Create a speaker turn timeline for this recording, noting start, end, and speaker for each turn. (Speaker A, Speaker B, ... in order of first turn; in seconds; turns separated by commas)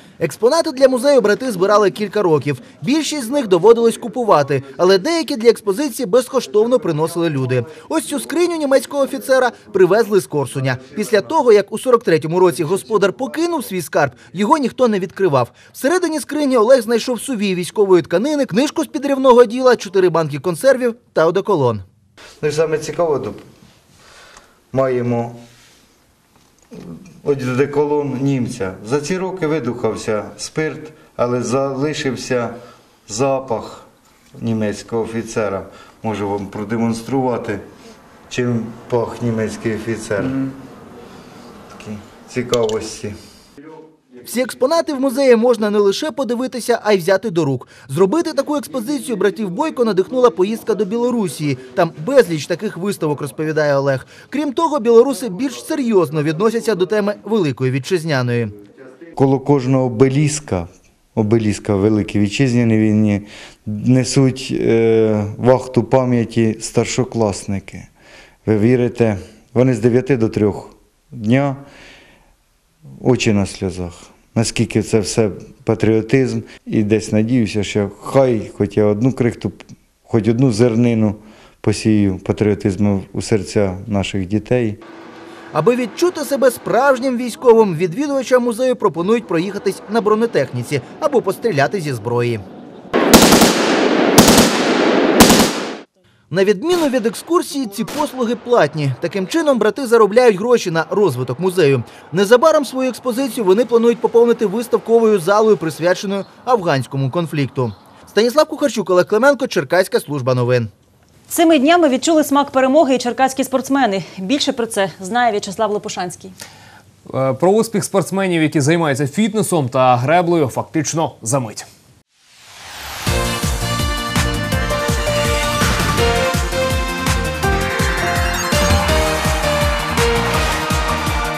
Speaker A: 0.2-21.8, Speaker B: 22.4-23.4, Speaker B: 24.7-25.4, Speaker B: 26.7-32.5, Speaker B: 33.1-37.6, Speaker B: 38.3-40.5, Speaker B: 41.7-43.1, Speaker A: 44.2-58.5, Speaker B: 59.1-67.9, Speaker B: 68.4-71.6, Speaker B: 73.0-84.8, Speaker A: 85.5-92.4, Speaker A: 96.3-110.7, Speaker C: 111.3-116.3, Speaker D: 117.0-121.7